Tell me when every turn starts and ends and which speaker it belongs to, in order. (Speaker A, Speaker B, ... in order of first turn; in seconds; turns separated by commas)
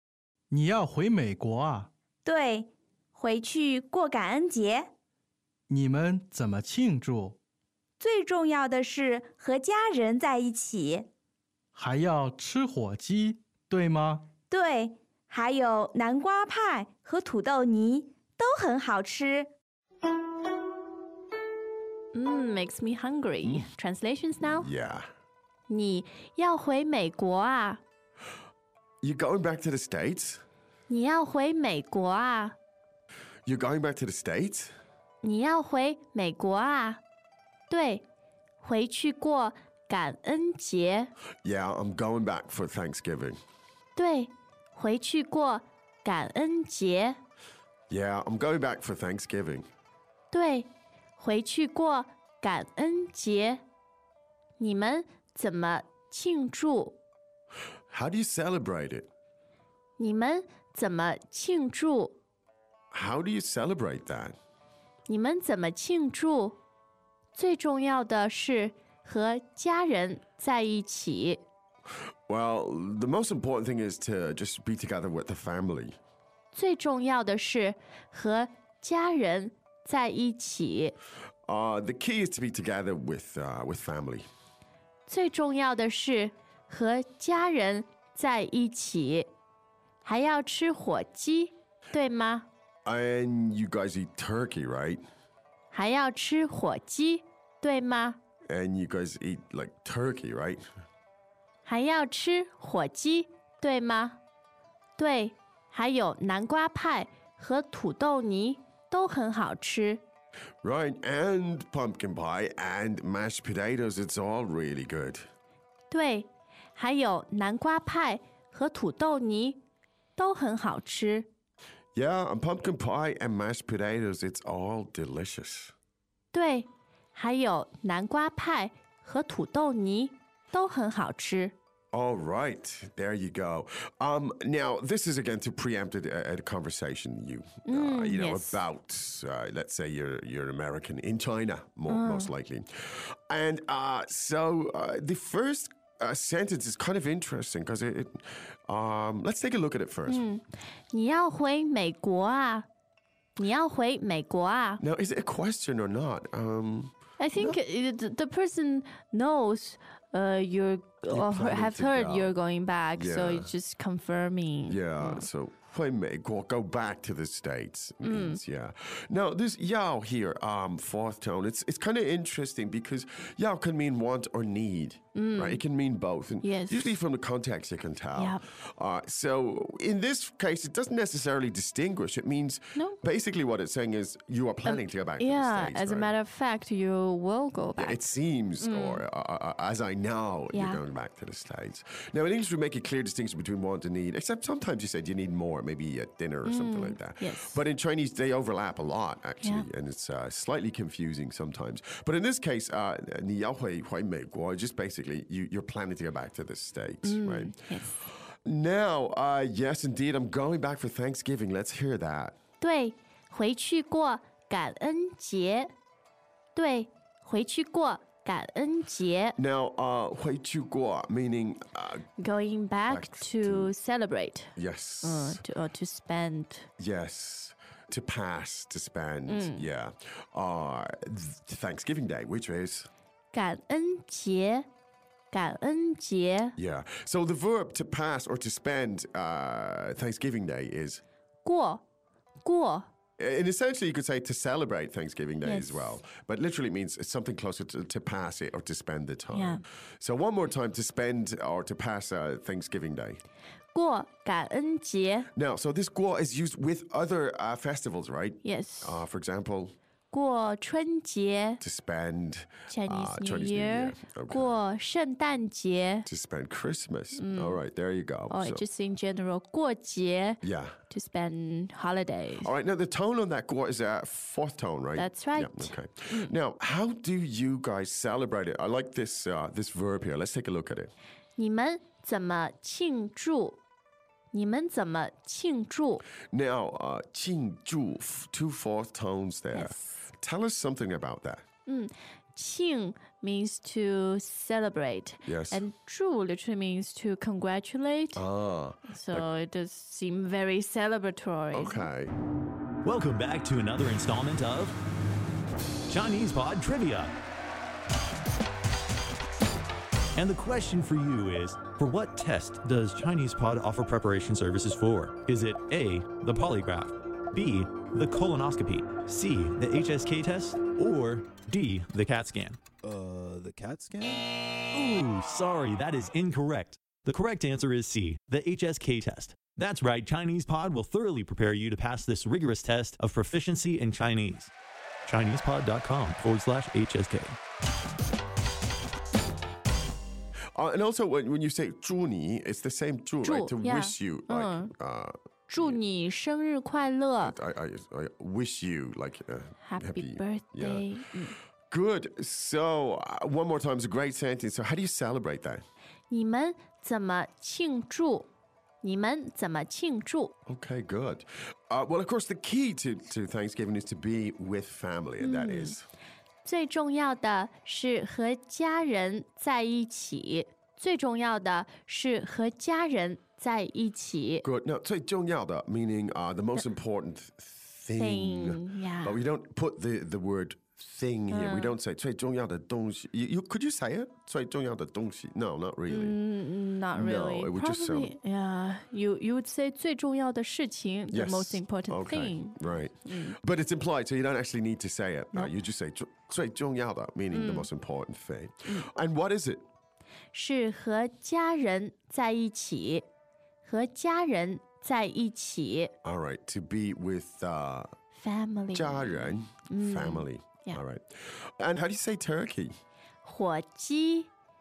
Speaker A: 0.5-1.9, Speaker B: 2.2-4.9, Speaker A: 5.7-7.4, Speaker B: 8.0-11.1, Speaker A: 11.7-14.2, Speaker B: 14.5-19.5, Speaker C: 22.1-24.7, Speaker D: 23.4-23.7, Speaker D: 24.4-25.1, Speaker C: 25.7-27.8, Speaker D: 29.0-30.4, Speaker C: 30.9-32.6, Speaker D: 33.5-34.7, Speaker C: 35.2-37.0, Speaker C: 37.7-38.0, Speaker C: 38.6-41.1, Speaker D: 41.4-43.4, Speaker C: 44.0-47.2, Speaker D: 47.9-49.7, Speaker C: 50.3-53.6, Speaker C: 54.6-57.0, Speaker D: 57.9-59.1, Speaker C: 60.0-62.2, Speaker D: 62.9-64.3, Speaker C: 65.1-66.6, Speaker C: 67.3-71.4, Speaker D: 72.3-76.0, Speaker C: 76.5-81.0, Speaker D: 81.5-84.3, Speaker C: 85.1-89.3, Speaker C: 90.0-92.5, Speaker D: 92.8-95.0, Speaker C: 95.7-98.2, Speaker D: 98.5-100.6, Speaker C: 101.7-104.2, Speaker C: 105.0-110.0, Speaker D: 110.6-115.3, Speaker C: 115.9-119.6, Speaker C: 120.2-121.3, Speaker D: 121.9-125.7, Speaker C: 126.3-131.6, Speaker D: 131.9-150.3, Speaker C: 137.7-138.6, Speaker C: 141.9-142.3, Speaker C: 150.1-152.7, Speaker C: 153.4-154.8, Speaker D: 154.8-157.6, Speaker C: 157.2-165.2, Speaker D: 161.1-162.3, Speaker D: 162.9-163.5, Speaker D: 164.7-186.2, Speaker C: 168.0-168.4, Speaker C: 175.1-175.6, Speaker C: 176.4-176.9, Speaker C: 178.2-178.4, Speaker C: 184.6-188.0, Speaker D: 187.8-207.6, Speaker C: 188.6-189.0, Speaker C: 190.5-190.8, Speaker C: 196.4-197.6, Speaker C: 207.0-208.0, Speaker D: 208.4-212.4, Speaker C: 212.6-215.7, Speaker C: 216.6-219.4, Speaker D: 219.4-222.1, Speaker C: 222.2-226.7, Speaker D: 222.9-223.7, Speaker D: 224.6-225.4, Speaker D: 226.8-232.9, Speaker C: 229.3-229.7, Speaker C: 233.3-234.7, Speaker C: 235.3-236.6, Speaker D: 236.6-241.0, Speaker C: 241.4-241.8, Speaker C: 242.4-242.9, Speaker D: 243.2-253.2, Speaker C: 245.4-246.0, Speaker C: 249.3-249.6, Speaker C: 253.7-255.3, Speaker D: 255.4-259.8, Speaker C: 258.4-259.0, Speaker C: 260.1-261.6, Speaker D: 261.6-264.6, Speaker C: 262.7-266.1, Speaker D: 266.1-268.6, Speaker C: 267.1-267.6, Speaker C: 268.3-272.5, Speaker D: 270.4-270.8, Speaker D: 272.4-280.9, Speaker C: 275.0-276.3, Speaker C: 281.4-283.6, Speaker C: 284.3-286.0, Speaker D: 286.3-291.4, Speaker C: 289.5-289.9, Speaker C: 291.7-298.2, Speaker D: 295.2-295.6, Speaker D: 298.1-299.3, Speaker C: 298.9-301.8, Speaker D: 301.5-302.1, Speaker E: 302.8-304.8, Speaker E: 305.9-307.1, Speaker E: 310.1-322.6, Speaker E: 324.7-334.5, Speaker E: 335.1-337.4, Speaker D: 340.6-345.8, Speaker C: 343.2-344.7, Speaker C: 345.5-347.4, Speaker D: 347.2-350.9, Speaker C: 349.6-351.4, Speaker D: 351.7-355.6, Speaker C: 356.1-358.3, Speaker C: 358.8-360.3, Speaker D: 360.5-365.9, Speaker C: 365.2-365.8, Speaker C: 366.4-374.4, Speaker D: 374.4-386.2, Speaker C: 378.0-379.2, Speaker C: 381.3-381.8, Speaker C: 385.9-393.4, Speaker D: 386.9-388.1, Speaker D: 391.1-399.6, Speaker C: 397.3-397.7, Speaker C: 400.3-403.1, Speaker C: 403.6-405.9, Speaker D: 406.0-407.9, Speaker C: 408.1-410.8, Speaker D: 408.7-412.8, Speaker C: 413.2-414.3